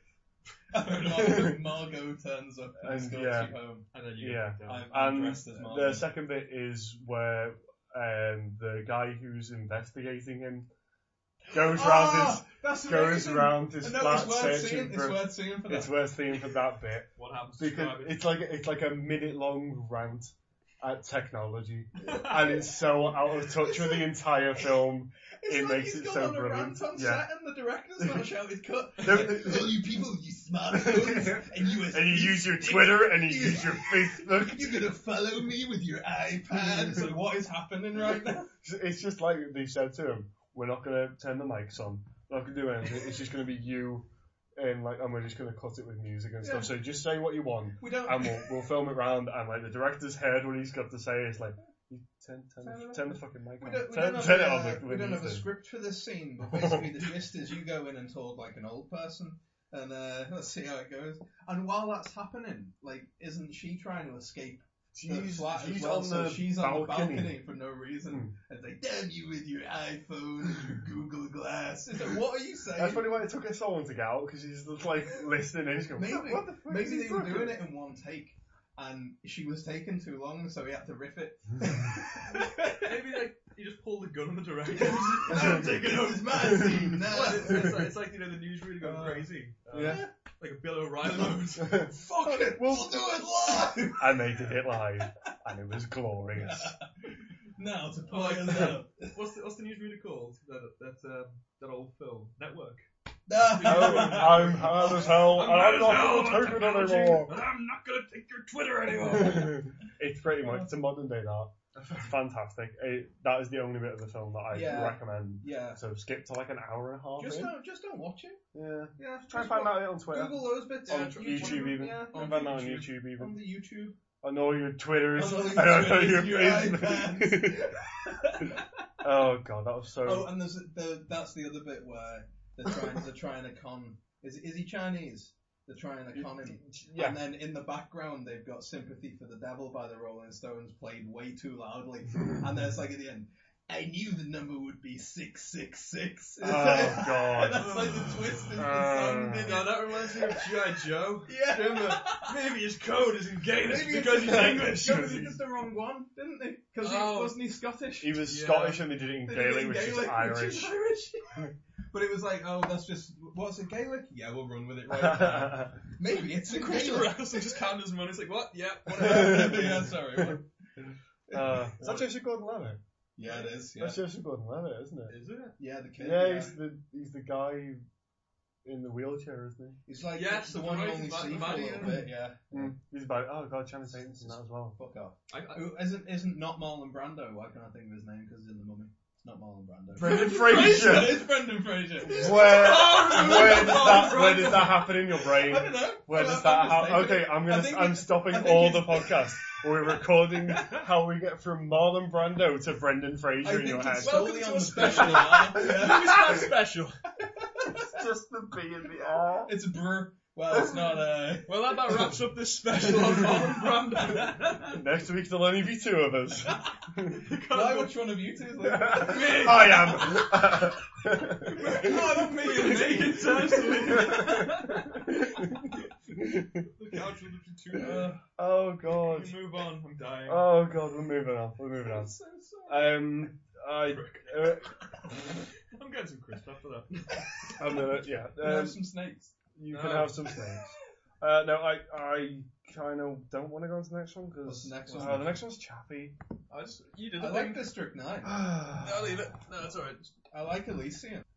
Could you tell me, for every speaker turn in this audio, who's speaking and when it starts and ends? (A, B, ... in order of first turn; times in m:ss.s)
0:00.7-0:03.9 A
0:01.1-0:01.6 B
0:02.8-0:03.5 B
0:03.9-0:04.9 C
0:04.2-0:10.7 B
0:04.6-0:06.1 A
0:11.5-0:27.2 B
0:11.5-0:16.0 A
0:17.2-0:18.3 C
0:22.0-0:22.6 C
0:23.3-0:24.7 A
0:25.4-0:38.5 A
0:29.0-0:29.8 B
0:30.7-0:34.8 B
0:36.7-0:37.0 B
0:38.6-0:44.1 B
0:44.6-0:55.5 B
0:46.4-0:46.7 A
0:47.8-0:48.5 A
0:52.6-1:13.1 A
0:56.5-0:57.1 B
1:05.0-1:07.4 B
1:12.8-1:17.6 B
1:16.0-1:23.0 A
1:22.4-1:31.9 C
1:24.7-1:27.9 A
1:26.5-1:27.7 B
1:28.8-1:30.1 A
1:29.7-1:30.0 B
1:31.1-1:34.5 A
1:31.6-1:33.0 B
1:34.0-1:36.8 B
1:36.4-1:39.2 A
1:38.1-1:49.7 C
1:43.3-1:45.3 A
1:43.6-1:47.4 B
1:49.0-1:57.5 B
1:50.4-1:50.7 A
1:51.8-1:52.1 C
1:54.5-1:55.8 A
1:57.2-1:58.4 A
1:58.5-2:03.4 B
1:59.0-2:04.0 A
2:00.8-2:02.9 C
2:04.2-2:07.8 B
2:05.1-2:08.8 A
2:09.0-2:10.3 B
2:10.0-2:32.5 A
2:16.1-2:17.2 B
2:26.4-2:27.7 B
2:27.5-2:28.6 C
2:28.5-2:29.7 B
2:29.3-2:35.4 C
2:33.6-2:38.3 A
2:34.7-2:35.2 B
2:36.8-2:37.4 C
2:38.0-2:40.8 B
2:38.2-2:38.8 C
2:39.2-2:47.6 A
2:44.9-2:45.8 B
2:46.3-2:50.0 C
2:48.9-2:50.4 A
2:49.0-2:50.4 B
2:51.3-2:51.7 A
2:51.3-2:52.8 B
2:51.8-2:52.1 C
2:53.2-2:54.0 A
2:53.2-2:53.5 C
2:53.8-2:55.2 B
2:55.1-2:55.6 C
2:55.6-2:56.6 A
2:56.0-2:57.8 B
2:58.6-2:59.8 B
2:59.9-3:02.7 A
3:00.2-3:02.1 C
3:02.5-3:04.8 B
3:04.0-3:14.4 A
3:05.3-3:05.7 C
3:10.0-3:11.3 B
3:10.0-3:11.1 C
3:12.0-3:24.2 B
3:12.1-3:14.9 C
3:15.2-3:19.4 A
3:23.4-3:26.5 A
3:23.9-3:27.0 C
3:27.4-3:28.0 A
3:27.7-3:29.6 B
3:29.5-3:31.6 A
3:30.5-3:30.9 B
3:31.5-3:34.8 C
3:34.6-3:37.2 B
3:37.1-3:38.2 C
3:37.5-3:39.8 A
3:38.6-3:46.7 B
3:38.8-3:40.7 C
3:41.4-3:45.3 C
3:41.6-3:44.2 A
3:46.7-3:48.2 C
3:47.7-3:49.4 B
3:48.9-3:50.5 C
3:50.3-3:52.1 B
3:51.8-3:53.0 A
3:52.7-3:54.8 B
3:53.9-3:57.6 C
3:57.6-3:58.8 B
3:58.4-3:59.3 A
3:59.6-4:00.6 B
3:59.7-4:00.6 C
4:01.2-4:06.2 B
4:04.4-4:05.4 A
4:06.5-4:07.7 C
4:07.2-4:08.4 A
4:08.2-4:09.3 B
4:08.8-4:10.1 C
4:10.3-4:11.2 A